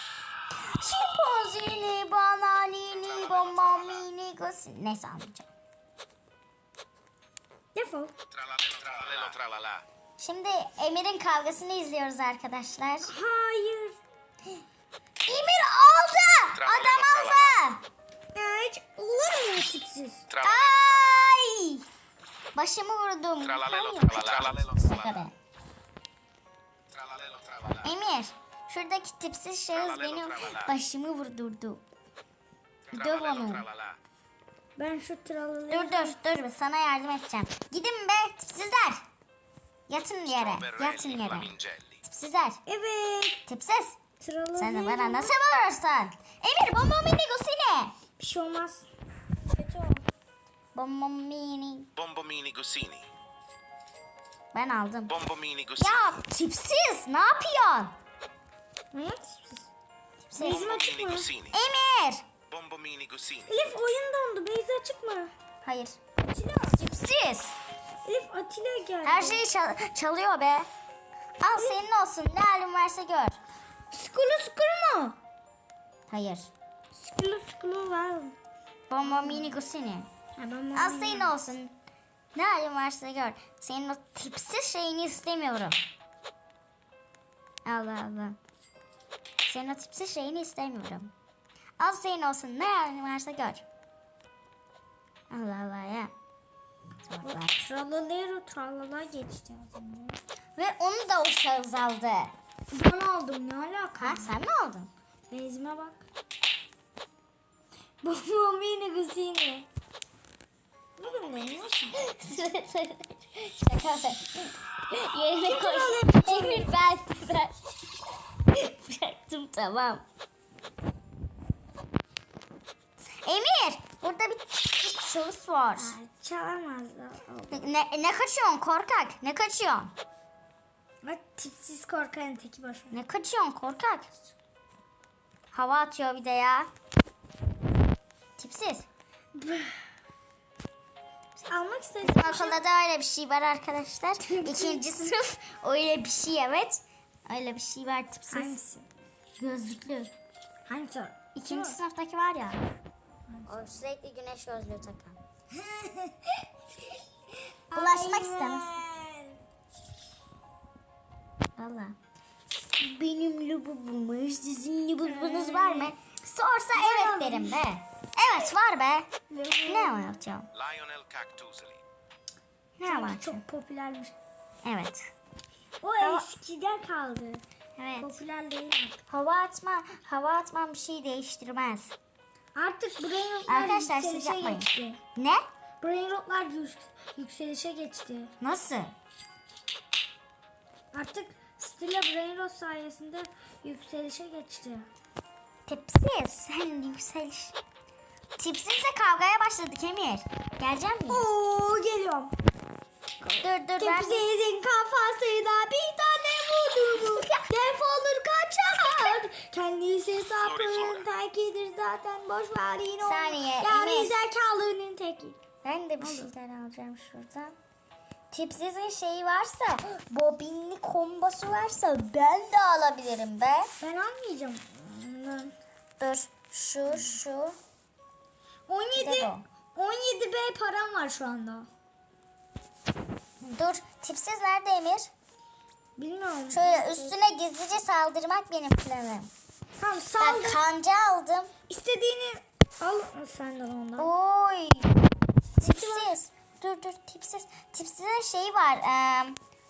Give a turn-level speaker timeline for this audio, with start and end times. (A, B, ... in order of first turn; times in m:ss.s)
0:00.6-0:05.5 A
0:07.8-0:08.1 B
0:08.6-0:09.8 C
0:10.2-0:13.1 A
0:13.0-0:14.0 B
0:15.3-0:17.8 A
0:16.7-0:17.2 C
0:18.3-0:20.3 B
0:20.4-0:20.9 C
0:20.4-0:21.8 A
0:22.6-0:25.3 A
0:27.0-0:27.7 C
0:27.6-0:31.8 A
0:32.9-0:33.7 A
0:34.8-0:36.2 B
0:35.7-0:39.0 A
0:39.9-0:42.6 A
0:41.4-0:41.9 C
0:42.6-0:43.4 B
0:43.5-0:44.0 A
0:44.2-0:45.4 B
0:44.6-0:48.0 A
0:48.2-0:48.9 B
0:49.5-0:50.1 B
0:50.8-0:51.9 A
0:52.0-0:53.1 C
0:54.5-0:57.9 A
0:55.2-0:55.8 C
0:58.9-0:59.7 B
1:00.3-1:00.8 A
1:00.4-1:01.3 B
1:00.5-1:01.3 C
1:01.5-1:02.2 A
1:02.5-1:03.4 C
1:03.4-1:05.3 B
1:05.6-1:06.0 A
1:06.2-1:06.8 B
1:06.7-1:07.6 A
1:08.0-1:09.4 B
1:09.0-1:10.7 A
1:11.4-1:13.4 A
1:11.6-1:11.8 B
1:13.9-1:15.2 B
1:16.1-1:16.5 A
1:16.9-1:18.4 B
1:18.9-1:20.1 A
1:19.0-1:19.5 B
1:20.4-1:21.3 B
1:20.7-1:21.8 A
1:22.3-1:25.8 A
1:27.6-1:28.4 A
1:29.4-1:31.1 A
1:31.8-1:33.6 A
1:35.3-1:36.1 A
1:37.0-1:37.6 A
1:37.2-1:40.2 B
1:40.6-1:42.3 A
1:42.7-1:44.3 B
1:44.0-1:44.9 A
1:45.3-1:46.0 B
1:48.0-1:49.7 B
1:51.0-1:52.1 B
1:51.9-1:57.6 A
1:55.4-1:56.7 B
1:58.5-2:00.0 A
2:03.2-2:05.9 A
2:05.8-2:07.8 B
2:07.5-2:09.9 A
2:11.0-2:13.0 B
2:12.9-2:14.3 A
2:15.5-2:16.7 A
2:18.4-2:18.9 A
2:19.3-2:19.9 B
2:21.4-2:22.6 B
2:22.0-2:28.6 A
2:24.3-2:24.8 B
2:28.3-2:28.9 B
2:29.4-2:30.1 A
2:30.7-2:31.8 B
2:31.3-2:32.6 A
2:33.3-2:33.7 B
2:33.5-2:35.2 A
2:35.5-2:36.5 B
2:37.7-2:39.4 B
2:37.7-2:38.7 A
2:41.6-2:42.0 A
2:42.8-2:49.1 A
2:45.1-2:45.9 B
2:46.7-2:47.6 B
2:49.3-2:50.2 B
2:49.6-2:50.5 A
2:50.6-2:51.8 C
2:52.8-2:53.4 A
2:52.8-2:54.1 B
2:54.6-2:55.1 A
2:55.8-2:57.4 B
2:56.0-2:56.3 A
2:57.8-2:58.2 A
2:58.0-2:59.0 B
2:59.1-3:01.9 A
3:02.6-3:05.0 B
3:03.5-3:05.4 A
3:05.8-3:08.3 B
3:08.4-3:08.9 A
3:10.9-3:14.9 B
3:15.7-3:17.6 A
3:18.4-3:21.3 A
3:21.1-3:22.3 B
3:23.2-3:35.4 B
3:23.4-3:24.2 A
3:27.0-3:27.5 A
3:33.0-3:34.2 A
3:35.6-3:37.6 A
3:36.0-3:36.3 B
3:38.3-3:43.7 A
3:43.8-3:45.6 B
3:46.0-3:47.6 A
3:48.7-3:51.7 B
3:49.0-3:49.4 A
3:53.4-3:55.1 A
3:56.0-3:57.3 B
3:56.5-3:59.3 A
3:59.8-4:00.6 B
4:00.2-4:01.5 A
4:01.7-4:04.1 B
4:04.0-4:05.0 A
4:05.6-4:06.1 B
4:05.6-4:09.4 A